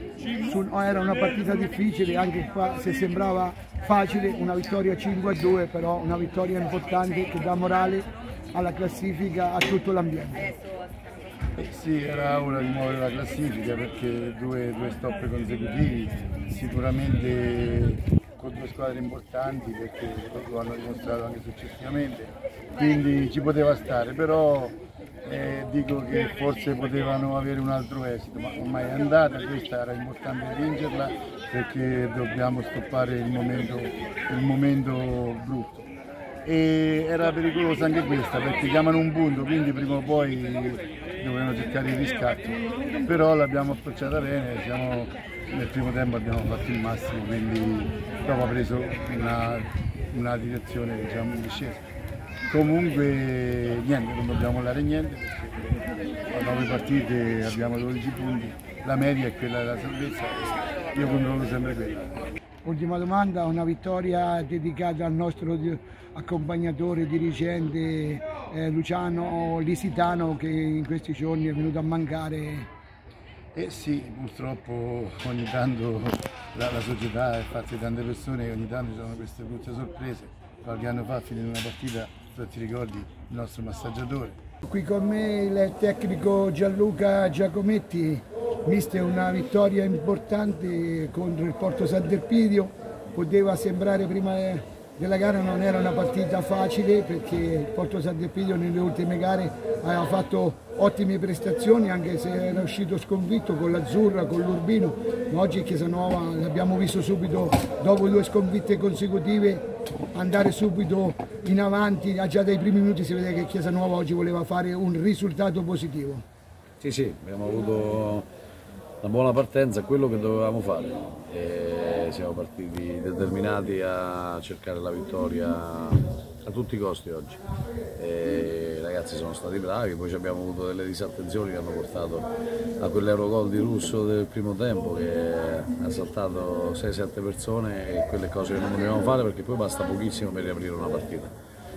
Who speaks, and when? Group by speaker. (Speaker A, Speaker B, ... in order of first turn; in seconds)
Speaker A: 0.4-10.5, 62.6-72.7, 84.6-116.2
Speaker B: 11.6-35.9, 36.4-51.8, 52.5-55.8, 56.3-62.2, 73.5-84.4
Speaker C: 116.8-118.3, 119.0-127.4, 128.0-141.3